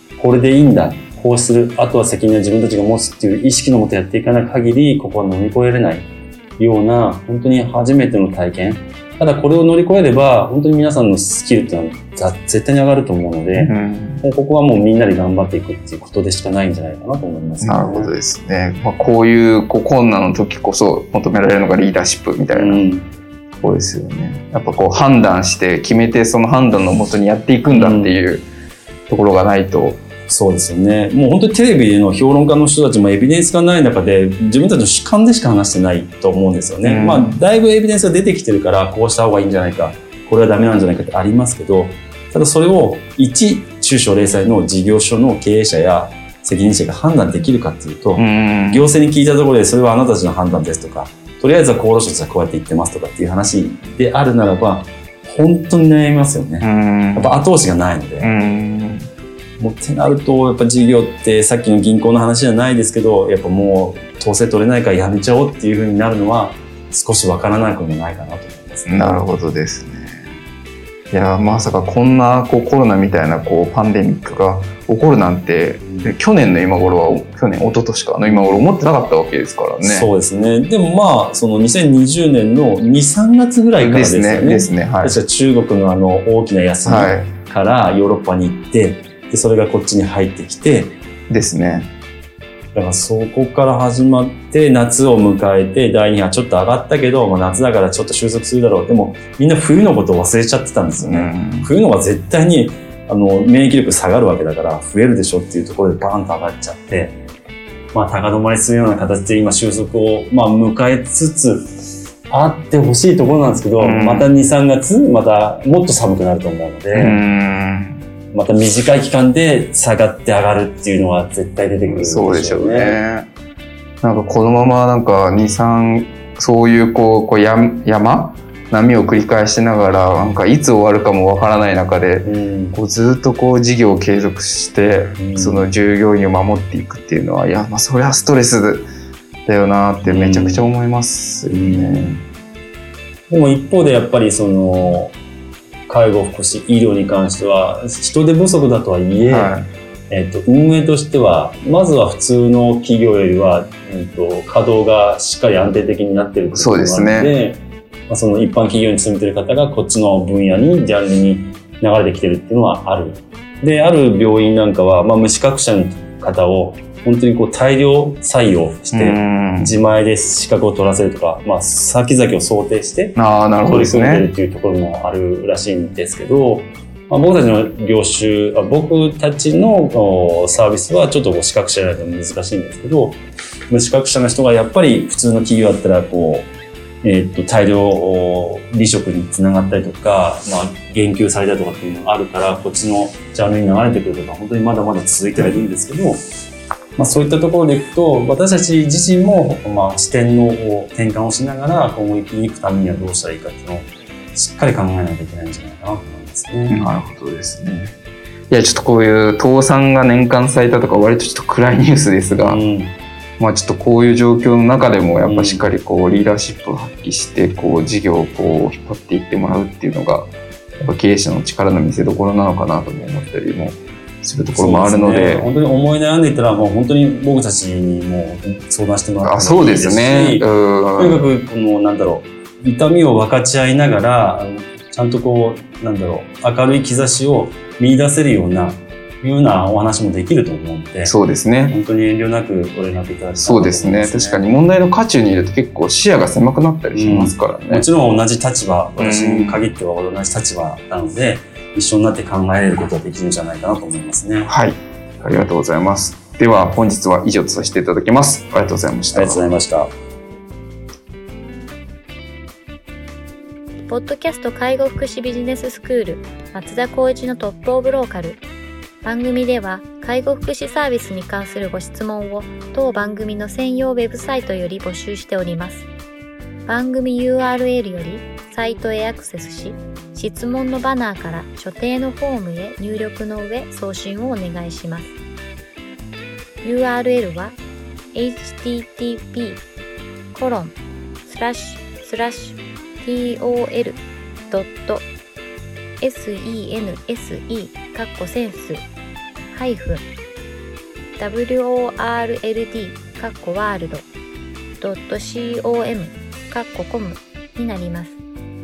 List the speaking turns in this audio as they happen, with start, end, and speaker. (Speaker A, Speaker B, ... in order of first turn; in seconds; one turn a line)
Speaker A: 0.2-6.0
Speaker A: 6.6-18.1
Speaker B: 13.5-14.2
Speaker B: 17.6-22.8
Speaker A: 22.5-23.1
Speaker B: 23.6-28.4
Speaker A: 27.7-28.1
Speaker B: 29.1-30.0
Speaker A: 30.3-58.3
Speaker B: 36.8-37.4
Speaker B: 48.2-48.9
Speaker B: 56.6-57.3
Speaker B: 58.2-59.1
Speaker A: 59.6-69.2
Speaker B: 68.9-70.2
Speaker B: 71.1-80.1
Speaker A: 75.8-76.1
Speaker A: 78.2-78.7
Speaker A: 79.8-91.0
Speaker B: 83.8-85.2
Speaker B: 86.8-87.3
Speaker B: 91.3-91.9
Speaker A: 92.7-107.2
Speaker B: 101.0-101.7
Speaker A: 107.9-111.7
Speaker A: 112.3-117.2
Speaker B: 113.8-114.3
Speaker B: 116.9-118.0
Speaker A: 118.3-123.0
Speaker B: 121.9-123.3
Speaker B: 124.0-138.9
Speaker A: 132.2-132.8
Speaker A: 135.2-135.7
Speaker B: 139.4-142.2
Speaker A: 140.0-140.6
Speaker A: 141.5-142.2
Speaker A: 143.3-145.1
Speaker A: 145.9-149.5
Speaker B: 149.2-149.7
Speaker A: 150.1-183.2
Speaker B: 156.5-157.3
Speaker B: 168.9-169.7
Speaker B: 173.2-174.3
Speaker A: 183.7-186.5
Speaker A: 187.0-196.2
Speaker A: 197.0-206.9
Speaker B: 206.7-207.9
Speaker B: 208.5-212.6
Speaker A: 212.4-212.9
Speaker B: 213.4-225.5
Speaker A: 215.2-215.7
Speaker A: 224.5-241.1
Speaker B: 229.2-231.2
Speaker B: 241.0-241.8
Speaker A: 241.7-244.4
Speaker B: 243.4-247.8
Speaker A: 246.9-254.5
Speaker B: 249.0-249.6
Speaker B: 254.5-259.4
Speaker A: 259.1-259.9
Speaker C: 263.9-268.4
Speaker C: 269.0-275.9
Speaker C: 276.6-285.1
Speaker C: 286.6-287.6
Speaker C: 288.1-289.6
Speaker C: 290.3-295.1
Speaker C: 296.0-298.9
Speaker C: 299.5-300.1
Speaker C: 301.2-304.1
Speaker C: 304.8-308.2